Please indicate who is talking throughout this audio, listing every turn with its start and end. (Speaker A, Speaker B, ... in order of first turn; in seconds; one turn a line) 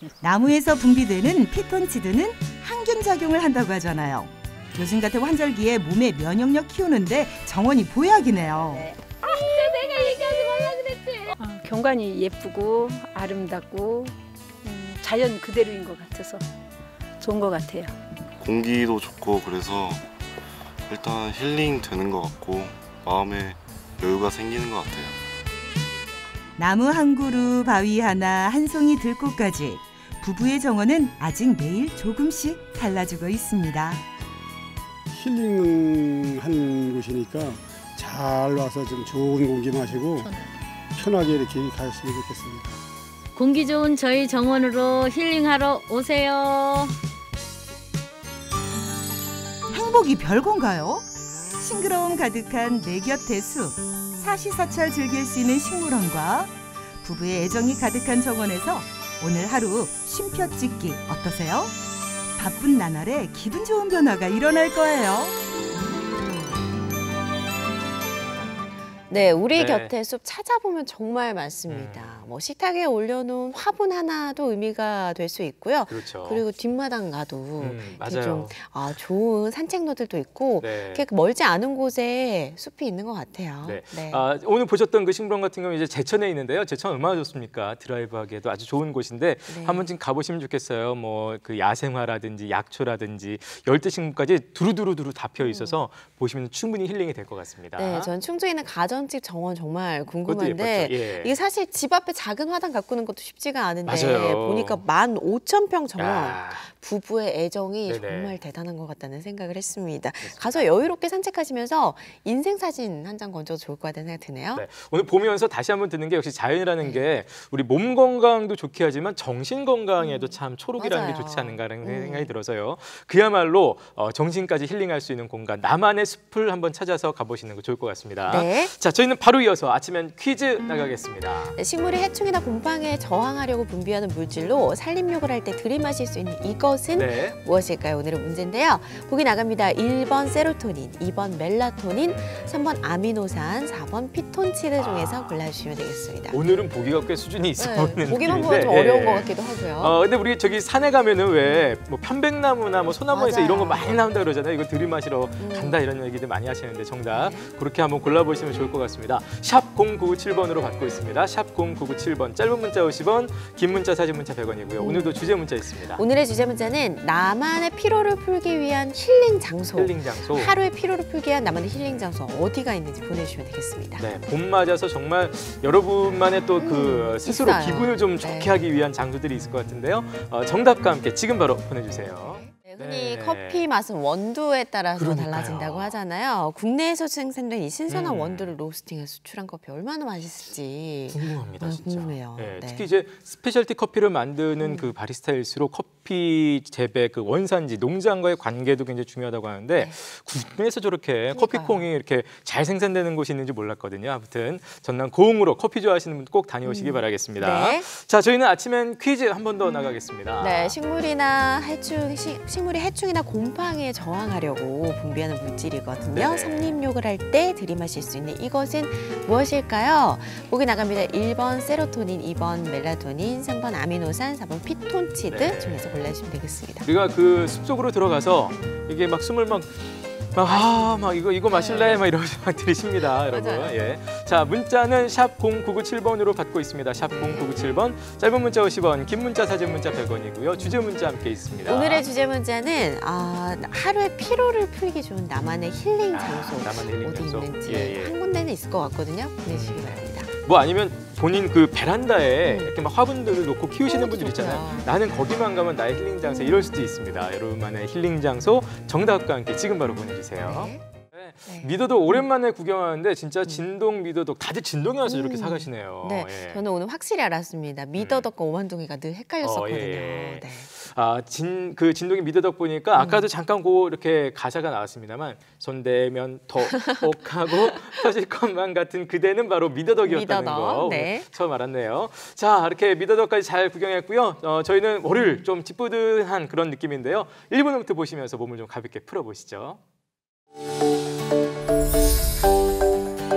Speaker A: 0.2-8.9
Speaker B: 9.2-16.4
Speaker B: 17.2-18.0
Speaker C: 18.4-20.0
Speaker C: 20.9-25.2
Speaker A: 26.6-34.0
Speaker D: 35.1-40.3
Speaker E: 40.1-40.5
Speaker D: 41.0-42.8
Speaker E: 43.4-46.9
Speaker A: 49.7-51.0
Speaker A: 51.5-61.7
Speaker A: 62.4-65.3
Speaker F: 69.1-84.2
Speaker G: 69.2-69.9
Speaker G: 71.7-72.3
Speaker G: 75.9-76.4
Speaker G: 77.6-78.6
Speaker G: 80.6-81.0
Speaker G: 83.6-98.1
Speaker F: 89.5-89.9
Speaker F: 95.4-95.8
Speaker F: 97.8-114.7
Speaker G: 100.2-101.4
Speaker G: 103.9-104.8
Speaker G: 106.0-106.7
Speaker G: 107.9-108.4
Speaker G: 110.2-110.7
Speaker G: 114.5-131.6
Speaker F: 116.8-117.1
Speaker F: 120.0-122.3
Speaker F: 128.3-128.8
Speaker F: 131.5-146.4
Speaker G: 136.9-137.4
Speaker G: 142.1-142.6
Speaker G: 144.8-145.4
Speaker G: 146.3-166.0
Speaker F: 147.6-150.0
Speaker F: 151.4-151.7
Speaker F: 153.1-154.1
Speaker F: 155.4-155.8
Speaker F: 157.1-157.5
Speaker F: 164.8-174.0
Speaker G: 169.8-170.6
Speaker G: 174.0-183.7
Speaker F: 176.6-178.6
Speaker F: 182.2-192.9
Speaker G: 185.0-186.0
Speaker G: 187.9-188.5
Speaker G: 191.1-210.8
Speaker F: 194.6-194.9
Speaker F: 201.3-201.9
Speaker F: 206.6-207.9
Speaker F: 210.4-226.9
Speaker G: 216.1-216.8
Speaker G: 225.3-225.9
Speaker G: 226.8-242.1
Speaker F: 230.4-232.1
Speaker F: 233.0-233.8
Speaker F: 236.9-237.5
Speaker F: 240.5-241.0
Speaker F: 241.6-250.3
Speaker G: 246.1-248.2
Speaker G: 249.5-266.6
Speaker F: 252.4-252.8
Speaker F: 253.8-255.0
Speaker F: 256.2-256.8
Speaker F: 260.4-260.8
Speaker F: 261.5-262.2
Speaker F: 265.0-270.7
Speaker G: 268.0-268.3
Speaker G: 269.4-289.8
Speaker F: 272.9-273.3
Speaker F: 276.6-277.1
Speaker F: 280.0-281.3